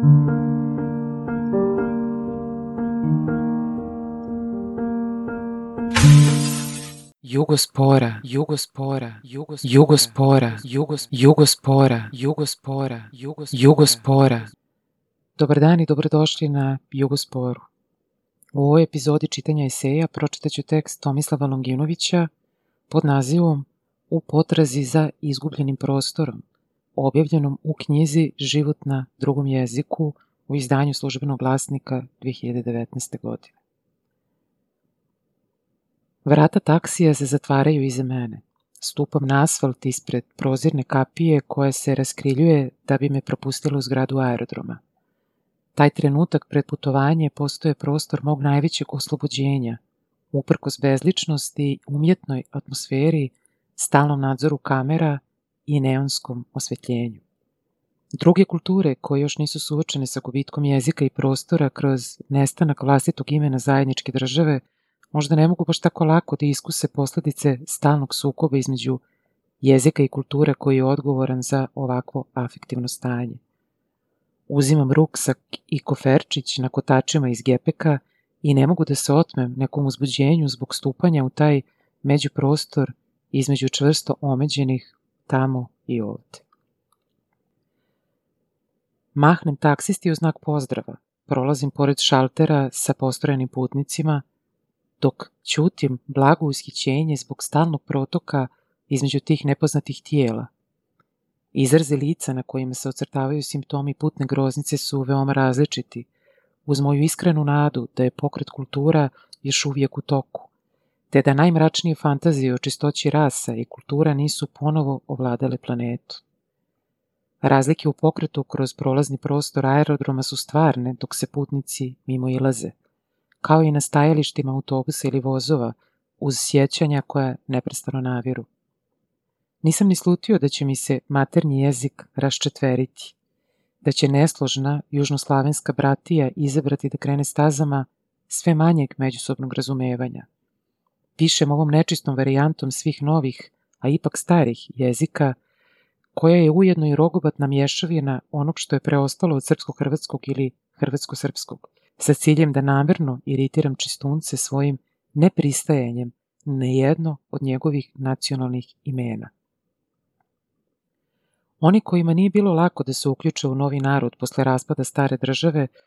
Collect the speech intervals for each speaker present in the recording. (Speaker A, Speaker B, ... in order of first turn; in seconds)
Speaker A: 7.2-14.5, 15.4-17.7, 18.6-22.3, 22.9-26.4, 27.0-33.5, 36.2-44.8, 45.8-49.8, 50.3-57.2, 58.1-69.0, 69.6-73.4, 74.5-86.5, 89.2-94.2, 95.0-100.5, 101.5-106.1, 106.7-110.5, 111.1-116.2, 117.4-122.8, 123.4-128.5, 129.6-133.2, 133.8-140.3, 141.2-145.4, 146.2-159.3, 161.6-165.7